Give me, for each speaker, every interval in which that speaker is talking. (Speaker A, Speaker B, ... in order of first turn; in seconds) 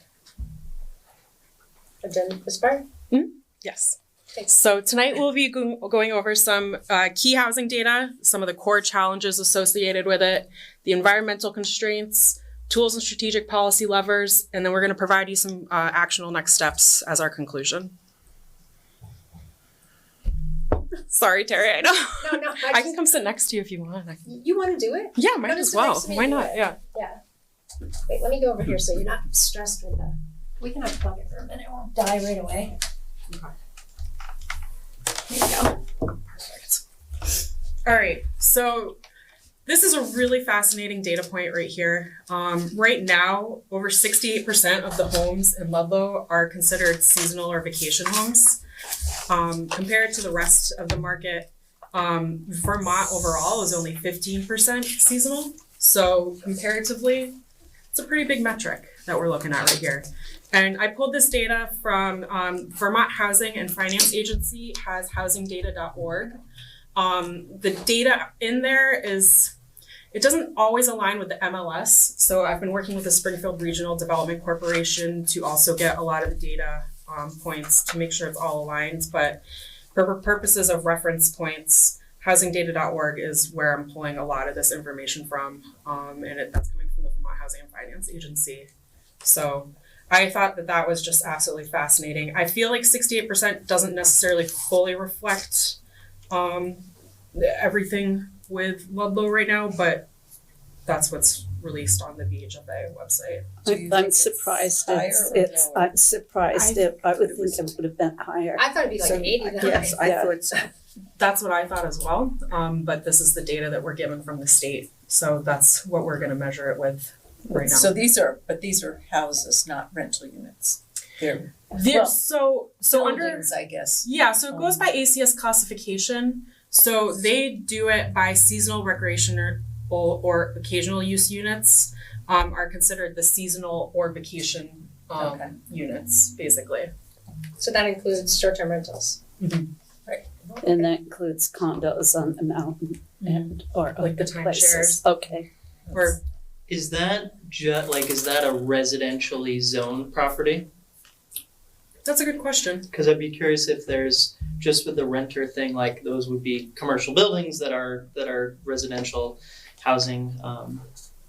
Speaker A: 2.0-2.9, 22.2-23.0, 24.3-27.2, 28.1-32.7, 35.3-35.7, 108.6-110.0, 137.6-139.2, 140.1-140.9
Speaker B: 3.1-17.9, 21.1-24.2, 25.2-26.8, 36.4-36.8, 37.9-39.0, 39.7-48.6, 49.3-57.4, 57.9-66.4, 67.0-69.5, 70.1-79.4, 79.9-88.7, 89.2-95.8, 96.3-100.1, 100.9-103.5, 106.6-106.8, 111.2-118.0, 121.7-123.5, 124.0-136.9, 139.4-139.7, 143.2-145.0, 145.9-146.2, 152.0-152.9
Speaker C: 103.7-108.7, 109.6-110.4, 140.6-146.1
Speaker D: 103.7-105.9, 107.3-107.6, 109.0-110.7
Speaker E: 104.5-104.9, 117.7-122.2, 122.8-124.8
Speaker F: 146.7-150.7, 152.9-160.8